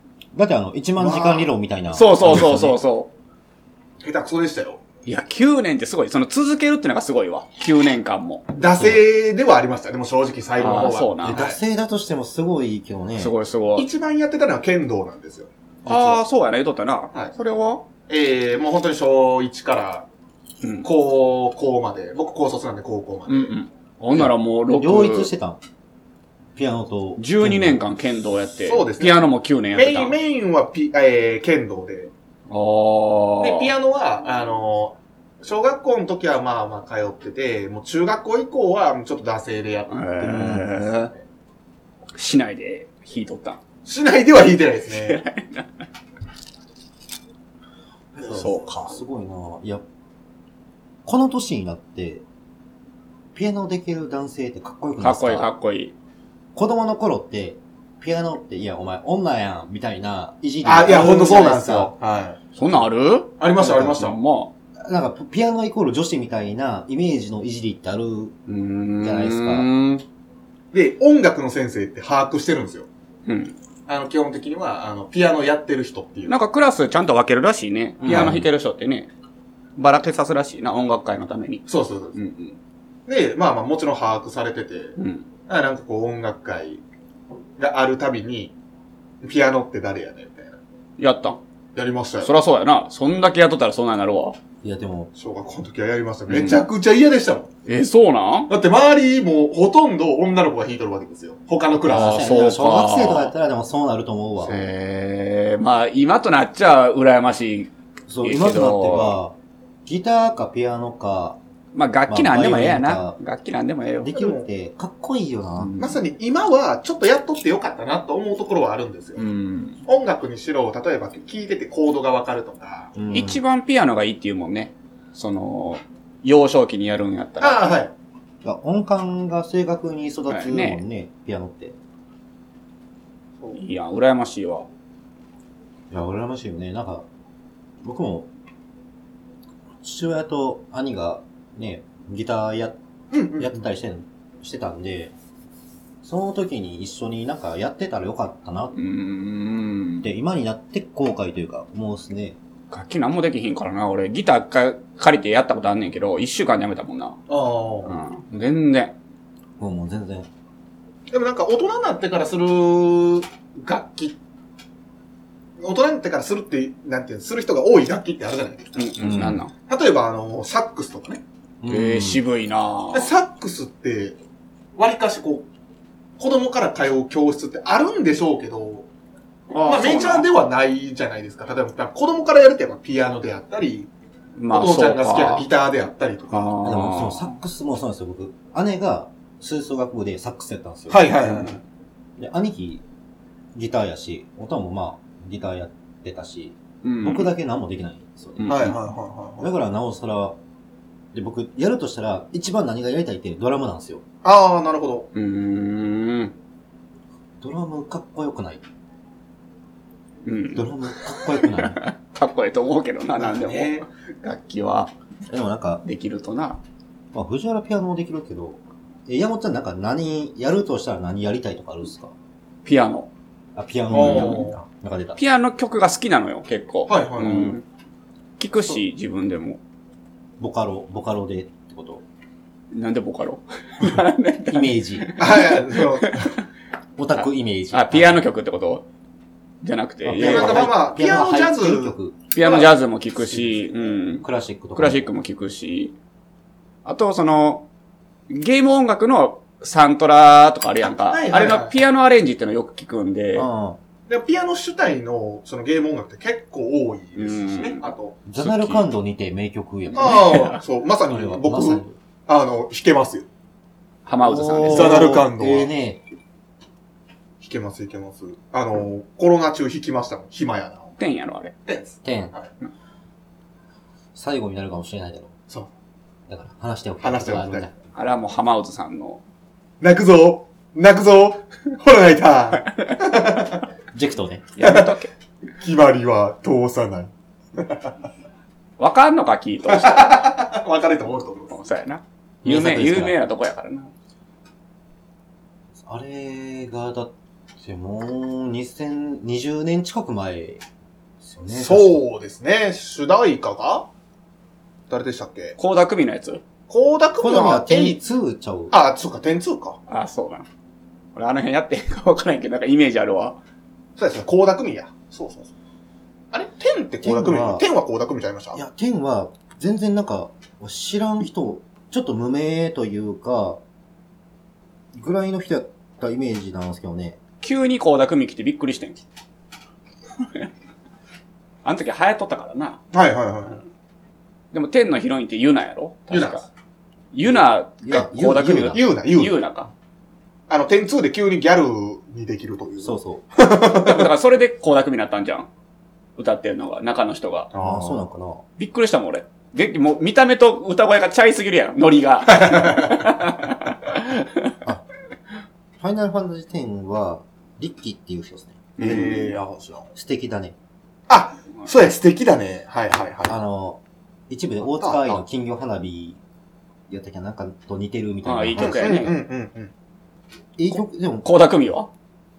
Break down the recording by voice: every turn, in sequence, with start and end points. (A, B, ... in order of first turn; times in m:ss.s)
0:00.3-0:02.8 A
0:01.0-0:01.5 B
0:01.9-0:03.1 C
0:04.0-0:04.8 B
0:05.0-0:08.9 C
0:08.6-0:11.6 B
0:10.6-0:11.4 C
0:11.2-0:13.3 A
0:13.2-0:13.9 C
0:13.8-0:16.2 B
0:15.9-0:17.8 C
0:18.1-0:20.0 B
0:20.6-0:20.9 C
0:20.8-0:23.5 B
0:23.3-0:25.3 C
0:24.1-0:25.6 A
0:26.5-0:27.8 A
0:27.2-0:30.1 C
0:28.7-0:32.1 B
0:32.5-0:33.7 C
0:33.4-0:41.2 B
0:39.9-0:41.1 C
0:40.3-0:40.6 A
0:42.1-0:43.6 C
0:43.8-0:45.2 B
0:45.0-0:45.7 C
0:48.1-0:49.8 A
0:48.2-0:48.5 B
0:48.3-0:49.0 C
0:51.0-0:52.2 A
0:53.3-0:55.5 A
0:55.0-0:55.9 C
0:56.5-1:01.9 A
1:00.6-1:02.4 B
1:00.7-1:01.1 C
1:02.6-1:04.5 C
1:03.4-1:04.2 B
1:04.8-1:08.4 A
1:08.5-1:10.0 C
1:09.0-1:09.7 A
1:10.7-1:12.9 B
1:13.2-1:13.5 C
1:13.9-1:16.4 B
1:16.3-1:19.1 C
1:18.0-1:18.4 A
1:19.8-1:22.6 C
1:21.7-1:22.2 B
1:23.1-1:25.0 B
1:25.0-1:25.2 C
1:25.5-1:26.8 B
1:27.6-1:28.5 B
1:29.2-1:30.6 B
1:31.0-1:31.4 C
1:31.7-1:32.3 B
1:32.2-1:34.4 C
1:34.6-1:35.1 A
1:35.2-1:37.5 B
1:36.3-1:36.6 C
1:37.7-1:38.5 C
1:38.5-1:42.2 B
1:41.9-1:44.7 A
1:41.9-1:43.3 C
1:44.4-1:47.7 C
1:48.1-1:51.4 A
1:48.2-1:49.2 C
1:51.7-1:54.1 C
1:52.1-1:53.2 A
1:54.0-1:55.7 A
1:54.1-1:54.4 B
1:55.6-1:56.0 C
1:55.8-1:59.2 B
1:59.2-1:59.8 C
1:59.9-2:02.9 B
2:02.9-2:03.4 A
2:03.1-2:07.6 C
2:07.4-2:07.9 B
2:08.4-2:11.8 A
2:10.3-2:10.8 C
2:13.5-2:14.7 C
2:15.9-2:17.0 A
2:17.8-2:18.3 A
2:19.8-2:22.8 A
2:23.1-2:23.5 B
2:23.3-2:25.1 A
2:26.0-2:28.7 A
2:28.7-2:30.1 C
2:30.0-2:32.4 A
2:32.7-2:37.2 C
2:37.3-2:38.0 B
2:37.8-2:38.9 C
2:39.6-2:40.3 A
2:41.1-2:44.2 B
2:45.6-2:48.9 B
2:48.8-2:49.5 C
2:49.0-2:49.4 A
2:49.7-2:51.2 B
2:51.6-2:52.2 A
2:51.7-2:53.1 C
2:52.9-2:54.2 B
2:54.8-2:55.5 B
2:56.2-2:58.9 B
2:59.5-3:00.3 C
2:59.6-3:03.9 B
3:04.4-3:05.4 C
3:04.5-3:06.5 B
3:06.3-3:07.4 C
3:06.6-3:11.1 A
3:10.9-3:11.6 B
3:11.2-3:11.6 C
3:12.2-3:12.8 A
3:13.5-3:18.5 A
3:16.8-3:17.3 C
3:18.4-3:18.8 C
3:18.5-3:19.5 B
3:19.4-3:20.4 A
3:21.1-3:24.0 A
3:24.2-3:25.1 B
3:25.1-3:26.3 C
3:27.4-3:28.6 A
3:30.2-3:34.9 C
3:30.5-3:31.8 A
3:33.2-3:33.9 B
3:35.3-3:35.8 A
3:35.8-3:36.6 C
3:37.1-3:42.1 A
3:42.6-3:43.1 C
3:43.5-3:45.2 A
3:43.9-3:44.6 B
3:43.9-3:44.5 C
3:45.2-3:47.6 C
3:46.9-3:47.6 B
3:48.4-3:49.6 C
3:50.4-3:52.0 A
3:52.7-3:56.4 C
3:54.5-3:55.1 A
3:55.2-3:56.3 B
3:57.0-3:58.3 A
3:57.2-3:58.8 C
3:59.6-4:00.7 C
4:00.0-4:02.2 A
4:00.2-4:02.7 B
4:02.3-4:05.9 C
4:03.3-4:05.1 A
4:06.8-4:07.6 C
4:08.3-4:13.5 C
4:11.1-4:11.8 B
4:13.3-4:13.8 A
4:14.1-4:18.2 B
4:17.2-4:17.8 C
4:18.2-4:20.5 A
4:18.4-4:18.8 C
4:19.9-4:23.3 B
4:20.0-4:20.6 C
4:21.1-4:22.0 A
4:24.0-4:25.1 C
4:24.2-4:26.0 A
4:24.6-4:25.7 B
4:27.4-4:31.0 B
4:31.0-4:31.5 C
4:31.6-4:32.5 B
4:32.0-4:32.3 A
4:34.1-4:35.3 A
4:36.3-4:37.7 A
4:37.0-4:37.7 B
4:37.9-4:39.2 C
4:39.8-4:43.6 B
4:43.9-4:44.5 A
4:44.6-4:45.1 C
4:44.6-4:45.0 B
4:45.6-4:47.9 B
4:48.8-4:50.1 C
4:49.7-4:51.6 B
4:51.5-4:53.9 C
4:52.4-4:53.1 A
4:55.8-5:00.6 A
5:01.2-5:02.0 A
5:01.5-5:03.9 B
5:04.9-5:05.6 B
5:05.6-5:06.4 C
5:06.7-5:08.0 B
5:07.2-5:08.7 A
5:08.7-5:09.8 B
5:09.9-5:10.5 C
5:11.1-5:13.4 C
5:14.0-5:15.5 B
5:16.3-5:18.6 B
5:17.0-5:17.7 A
5:18.5-5:23.6 A
5:24.9-5:27.2 A
5:27.4-5:29.0 C
5:30.2-5:30.5 C
5:31.6-5:32.8 C
5:32.9-5:33.6 B
5:34.5-5:36.4 C
5:36.1-5:36.5 B
5:37.1-5:39.7 C
5:37.8-5:38.8 A
5:38.7-5:39.4 B
5:40.5-5:44.1 B
5:42.8-5:43.2 A
5:43.7-5:45.5 C
5:46.2-5:47.5 C
5:47.5-5:48.0 B
5:47.6-5:48.4 A
5:48.6-5:54.5 C
5:52.3-5:53.1 B
5:55.8-5:59.1 A
5:58.8-5:59.4 C
5:58.8-5:59.9 B
5:59.9-6:00.5 A
6:01.1-6:03.4 B
6:03.3-6:06.2 A
6:04.8-6:05.2 B
6:06.9-6:09.0 A
6:08.2-6:09.1 C
6:08.6-6:09.7 B
6:10.6-6:11.3 A
6:10.7-6:11.9 C